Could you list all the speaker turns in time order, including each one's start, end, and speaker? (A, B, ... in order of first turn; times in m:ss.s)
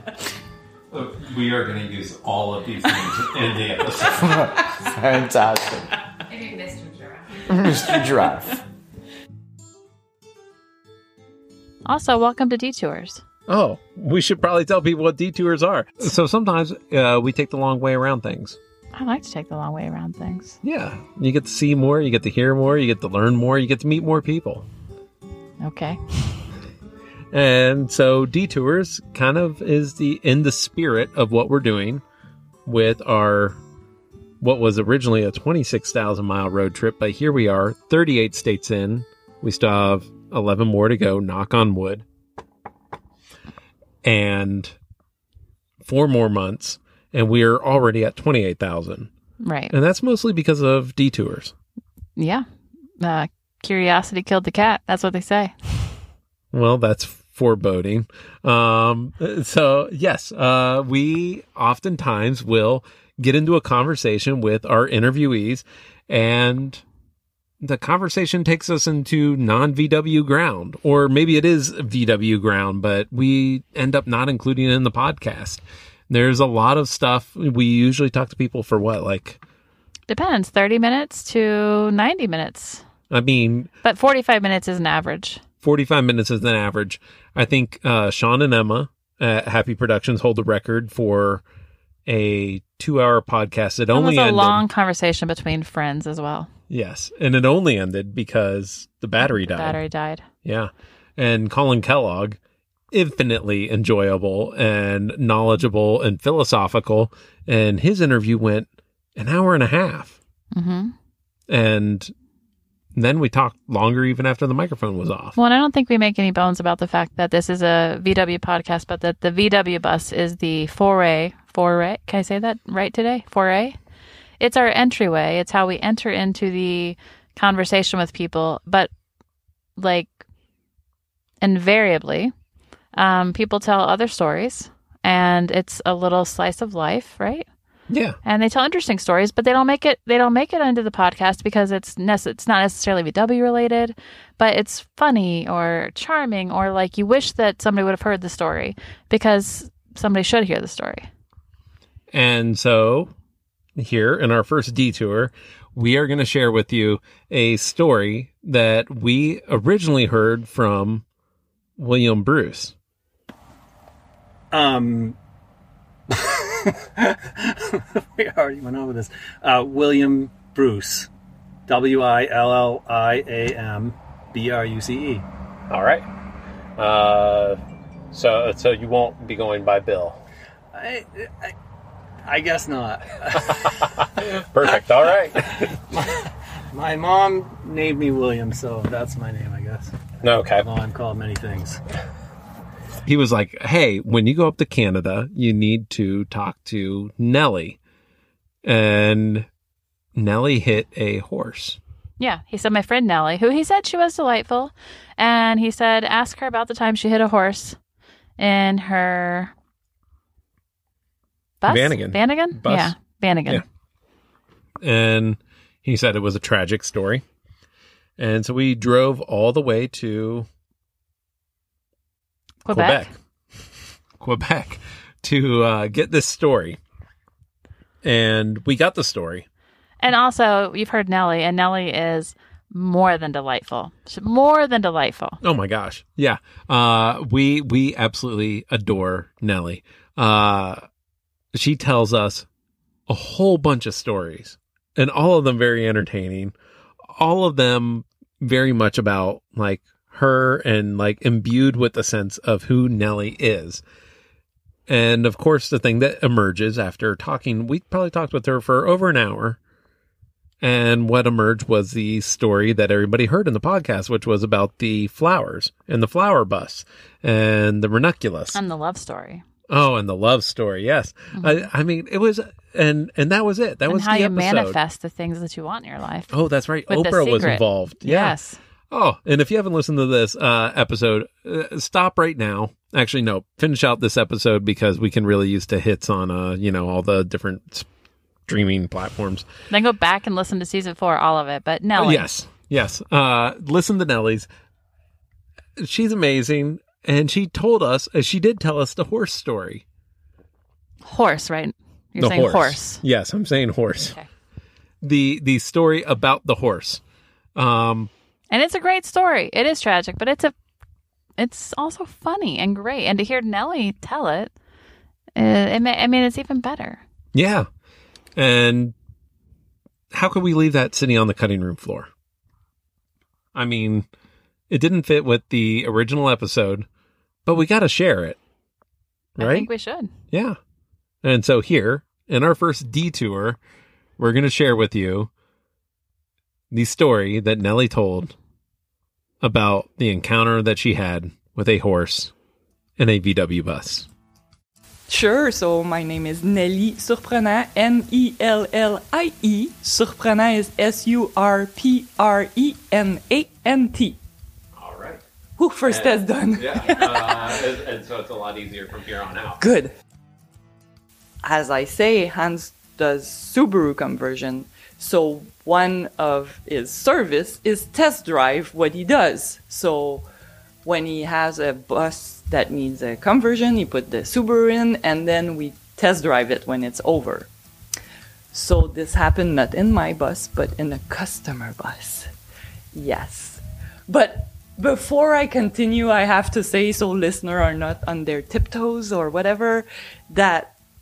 0:00.9-0:04.6 A
0:04.2-0:05.9 B
0:06.3-0:07.5 C
0:07.5-0:08.6 B
0:11.8-0:13.2 C
0:13.5-0:18.6 A
0:18.9-0:20.6 C
0:20.6-0:24.6 A
0:25.6-0:26.5 C
0:27.3-0:32.0 A
0:32.6-0:33.6 A
0:34.4-0:42.0 A
0:44.0-0:44.7 A
0:45.8-0:49.1 A
0:49.4-0:49.7 C
0:49.7-0:51.5 A
0:52.2-0:52.4 C
0:53.0-0:55.9 C
0:56.5-1:06.8 A
1:07.6-1:19.4 A
1:20.1-1:22.8 C
1:23.1-1:23.7 A
1:23.8-1:25.4 C
1:25.6-1:31.4 A
1:32.1-1:34.6 A
1:33.9-1:36.5 C
1:36.7-1:39.8 A
1:39.2-1:40.2 C
1:40.4-1:42.4 A
1:42.9-1:50.2 A
1:50.5-1:50.9 C
1:51.5-1:52.1 A
1:52.9-1:55.4 A
1:55.4-2:03.8 C
2:04.4-2:08.9 C
2:09.8-2:10.2 C
2:11.4-2:12.3 C
2:13.0-2:17.4 C
2:17.9-2:18.2 A
2:18.2-2:31.1 C
2:32.1-2:33.1 A
2:33.8-2:41.0 A
2:41.8-2:42.7 A
2:44.5-2:45.2 D
2:46.4-2:51.1 D
2:51.7-2:55.2 D
2:55.7-2:56.0 A
2:56.8-2:57.6 A
2:58.1-3:00.2 A
3:00.7-3:01.5 D
3:02.3-3:03.3 D
3:03.7-3:05.4 A
3:06.7-3:09.9 D
3:10.2-3:10.7 A
3:10.6-3:11.8 D
3:13.0-3:17.8 A
3:18.6-3:19.5 A
3:20.2-3:21.8 A
3:22.2-3:27.8 C
3:28.4-3:29.5 C
3:31.6-3:33.6 C
3:31.7-3:33.6 A
3:34.8-3:37.2 A
3:38.2-3:40.5 A
3:42.6-3:43.1 C
3:42.7-3:43.1 A
3:44.2-3:46.8 A
3:48.0-3:49.4 A
3:50.0-3:55.4 C
3:55.4-4:00.8 A
4:01.5-4:02.5 A
4:03.1-4:06.5 A
4:07.1-4:13.8 A
4:14.9-4:19.6 A
4:20.6-4:28.6 A
4:28.5-4:29.4 C
4:29.7-4:34.8 A
4:31.4-4:31.7 C
4:33.9-4:36.3 C
4:36.3-4:38.4 A
4:36.9-4:38.6 C
4:38.9-4:47.9 A
4:48.5-4:49.5 A
4:49.7-4:52.3 C
4:51.9-4:54.5 A
4:55.8-4:59.8 A
5:01.0-5:03.0 C
5:02.2-5:04.1 A
5:05.0-5:07.0 A
5:07.6-5:08.1 A
5:08.5-5:10.5 C
5:11.4-5:14.5 C
5:15.4-5:17.0 C
5:17.3-5:17.7 A
5:18.4-5:18.9 A
5:20.1-5:22.1 A
5:23.5-5:24.1 A
5:24.7-5:26.8 A
5:27.4-5:28.4 A
5:29.4-5:29.7 A
5:29.4-5:30.1 C
5:30.3-5:30.6 A
5:31.2-5:33.6 A
5:34.2-5:35.3 A
5:36.7-5:38.3 A
5:39.4-5:42.3 A
5:43.0-5:44.1 A
5:45.1-5:54.2 E
5:54.7-5:55.2 A
5:55.6-5:57.6 E
5:55.8-5:59.6 A
5:59.6-5:59.9 E
6:01.4-6:10.2 E
6:10.8-6:17.5 E
6:18.5-6:22.3 E
6:22.9-6:30.7 E